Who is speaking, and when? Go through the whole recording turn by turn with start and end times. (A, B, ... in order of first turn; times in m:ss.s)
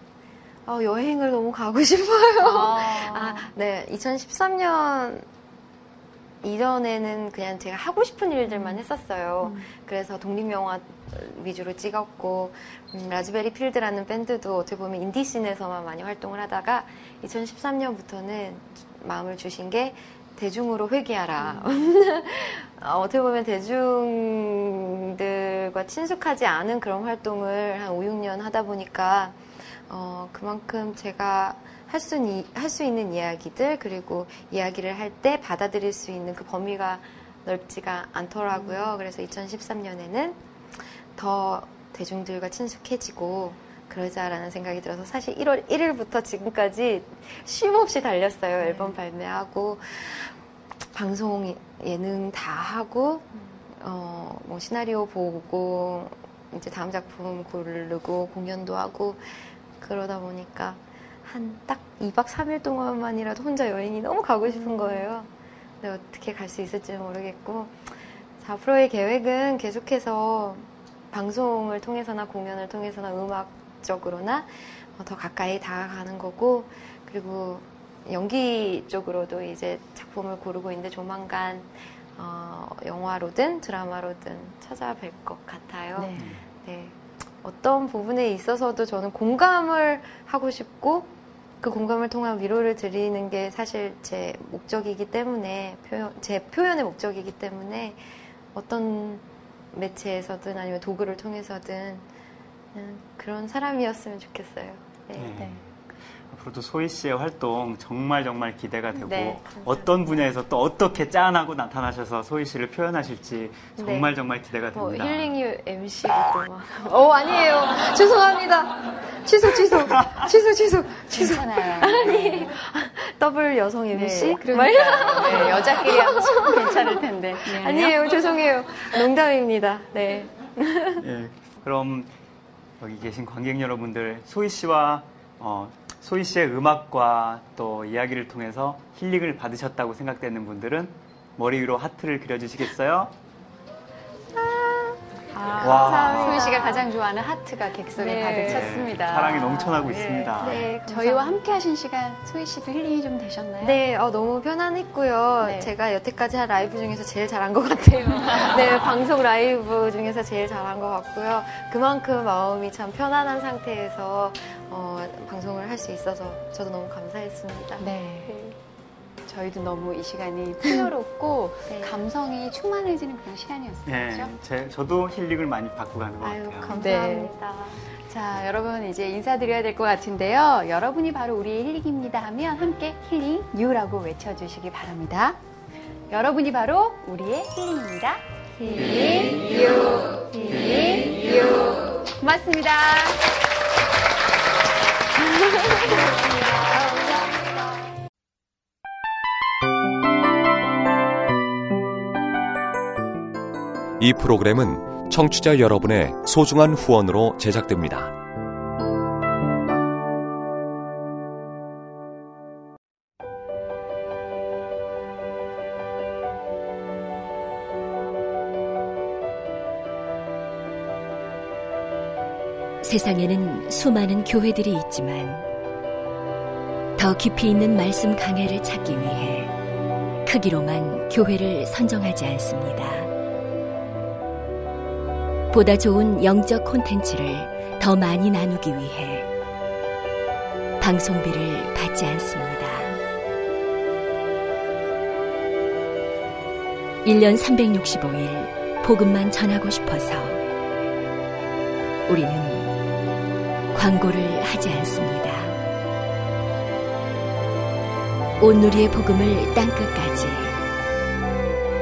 0:00.6-0:05.3 A
0:02.4-0:03.5 B
0:06.4-0:40.4 A
0:08.5-0:08.8 B
0:09.4-0:09.7 B
0:21.4-0:21.7 B
0:38.5-0:38.9 B
0:41.2-1:42.1 A
0:48.6-0:49.0 B
1:04.4-1:05.1 B
1:26.0-1:26.4 B
1:26.2-1:26.4 C
1:42.7-1:45.4 A
1:45.2-1:55.3 C
1:49.0-1:49.9 A
1:49.1-1:49.4 B
1:53.8-1:54.1 A
1:54.7-2:11.0 A
1:59.9-2:00.2 C
2:01.1-2:02.5 B
2:03.9-2:08.0 B
2:11.0-2:12.1 C
2:12.8-2:23.1 C
2:24.3-2:26.9 A
2:25.4-2:33.8 B
2:25.6-2:26.6 C
2:28.0-2:28.9 A
2:28.5-2:30.7 C
2:30.3-2:31.4 A
2:33.6-2:48.6 A
2:35.4-2:35.7 B
2:47.8-2:48.3 B
2:49.3-2:54.3 B
2:51.7-2:52.0 A
2:53.9-2:56.8 C
2:56.2-2:57.8 A
2:56.7-3:05.4 B
3:06.1-3:13.2 B
3:08.6-3:11.9 A
3:15.2-3:17.5 A
3:24.0-3:28.1 D
3:42.8-3:45.4 E
3:47.0-3:49.5 E
3:50.2-3:53.1 E
3:55.5-3:59.3 E
4:00.8-4:03.0 E
4:07.0-4:10.4 E
4:12.1-4:12.7 E
4:13.7-4:15.6 E
4:18.4-4:20.6 E